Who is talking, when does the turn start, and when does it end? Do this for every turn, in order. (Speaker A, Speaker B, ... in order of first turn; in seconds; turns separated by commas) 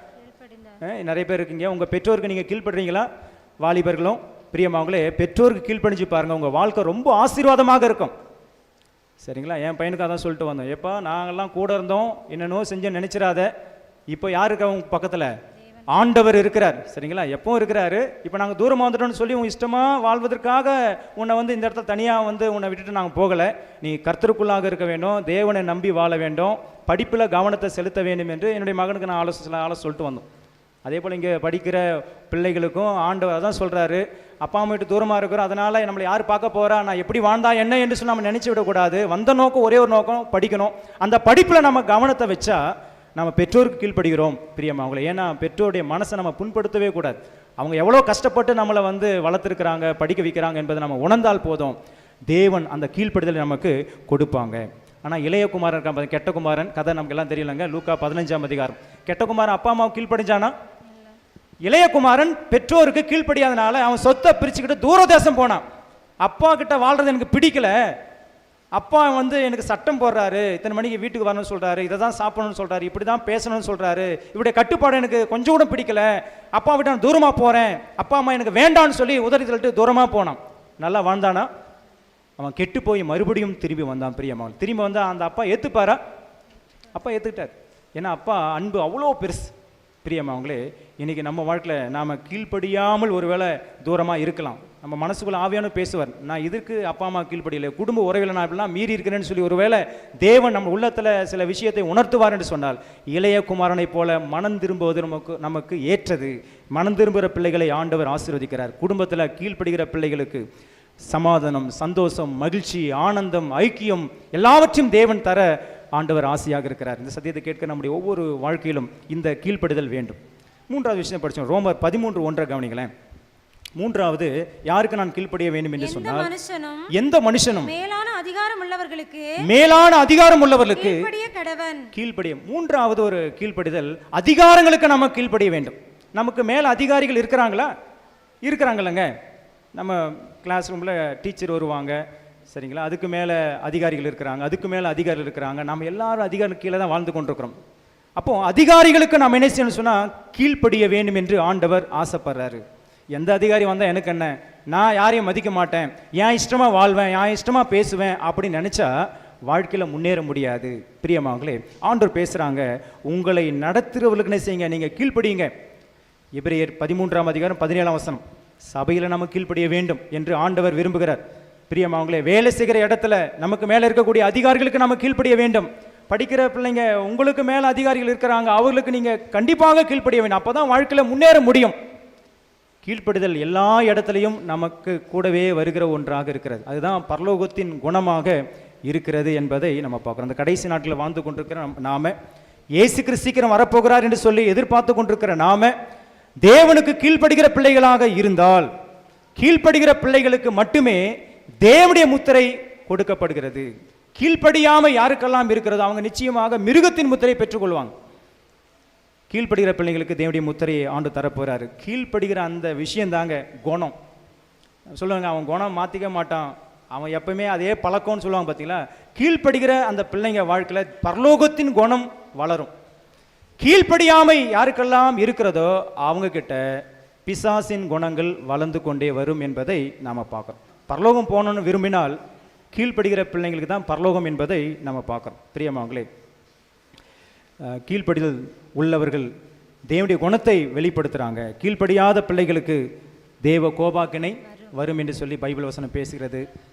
Speaker A: 0.2-0.8, Speaker B: 0.8-3.1, Speaker B: 3.6-8.1, Speaker B: 9.2-13.5, Speaker B: 14.1-15.3, Speaker A: 15.7-16.0, Speaker B: 15.9-30.2, Speaker B: 30.9-42.6, Speaker B: 43.2-51.8, Speaker B: 52.3-60.5, Speaker B: 61.6-65.6, Speaker B: 66.2-67.9, Speaker B: 68.8-81.5, Speaker B: 82.4-86.0, Speaker B: 86.9-89.5, Speaker B: 90.0-110.5, Speaker B: 111.1-120.2, Speaker B: 120.7-122.9, Speaker B: 123.8-126.3, Speaker A: 125.8-126.9, Speaker B: 126.9-127.7, Speaker A: 127.6-129.4, Speaker B: 129.4-131.0, Speaker A: 130.7-131.9, Speaker B: 131.9-137.7, Speaker B: 138.4-139.1, Speaker B: 139.8-147.5, Speaker B: 148.2-165.5, Speaker B: 166.4-181.8, Speaker B: 182.8-192.2, Speaker B: 192.8-195.7, Speaker B: 196.4-198.7, Speaker B: 199.4-201.1, Speaker B: 201.6-207.9, Speaker B: 209.3-213.9, Speaker B: 214.9-222.7, Speaker B: 223.6-232.2, Speaker B: 232.7-236.1, Speaker B: 237.7-239.3, Speaker B: 239.9-242.8, Speaker B: 243.4-246.5, Speaker A: 244.5-244.8